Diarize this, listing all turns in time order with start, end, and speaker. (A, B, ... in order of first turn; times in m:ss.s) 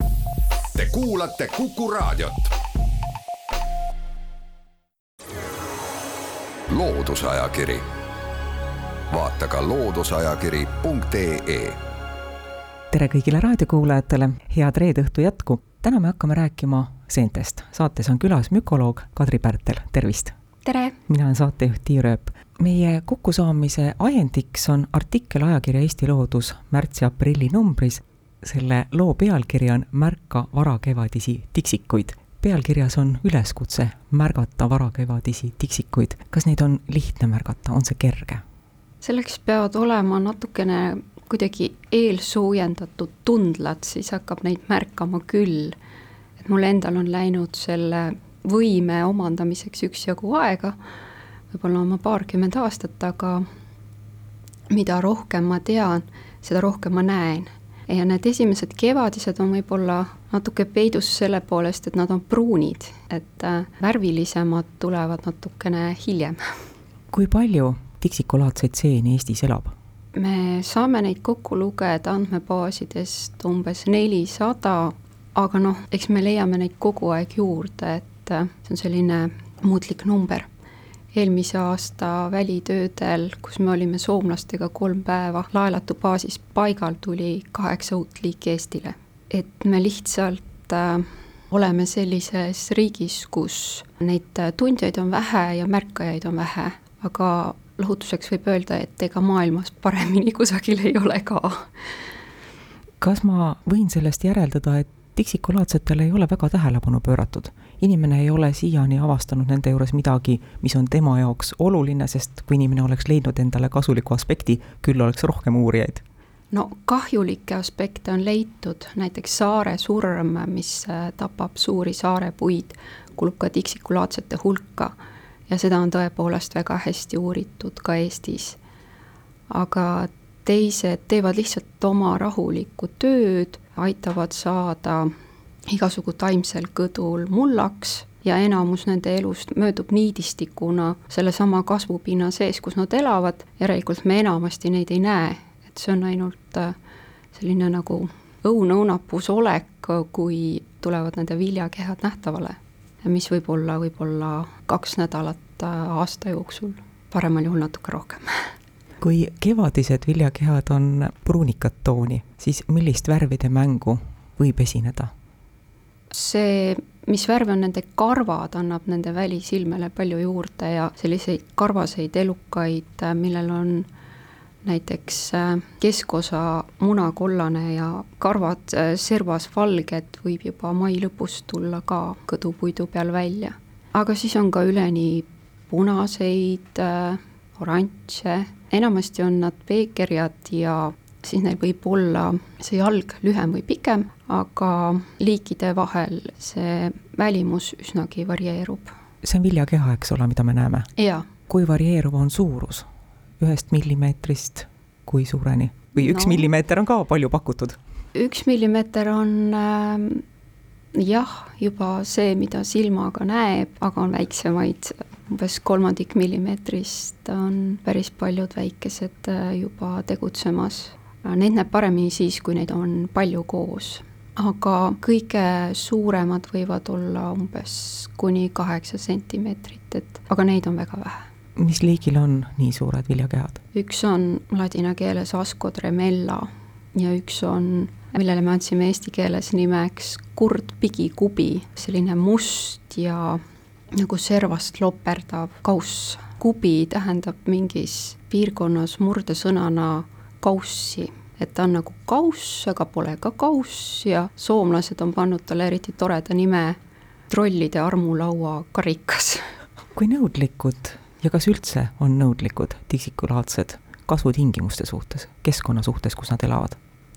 0:00.7-0:02.5 A
0:06.7-0:07.8 A
0:09.1-0:11.8 A
0:12.9-0:20.3 B
0:20.6-0:21.0 C
0:21.1-0:38.4 B
0:39.0-0:45.8 C
0:46.4-0:50.8 C
0:51.5-0:53.4 C
0:54.7-1:06.4 C
1:07.1-1:09.7 B
1:10.1-1:20.5 C
1:21.1-1:41.7 C
1:43.0-1:56.0 B
1:56.5-2:04.9 C
2:05.5-2:08.6 C
2:09.5-2:15.1 C
2:15.7-2:26.7 C
2:27.3-2:38.5 C
2:39.0-2:45.1 B
2:46.1-2:53.9 C
2:54.6-3:18.9 C
3:19.2-3:20.9 B
3:21.0-3:21.3 C
3:21.5-3:22.8 B
3:23.4-3:27.8 B
3:26.0-3:26.5 C
3:28.1-3:30.2 C
3:30.9-3:51.3 C
3:51.6-3:53.6 B
3:53.7-4:03.4 C
4:03.9-4:16.8 C
4:17.3-4:19.4 C
4:19.9-4:26.8 B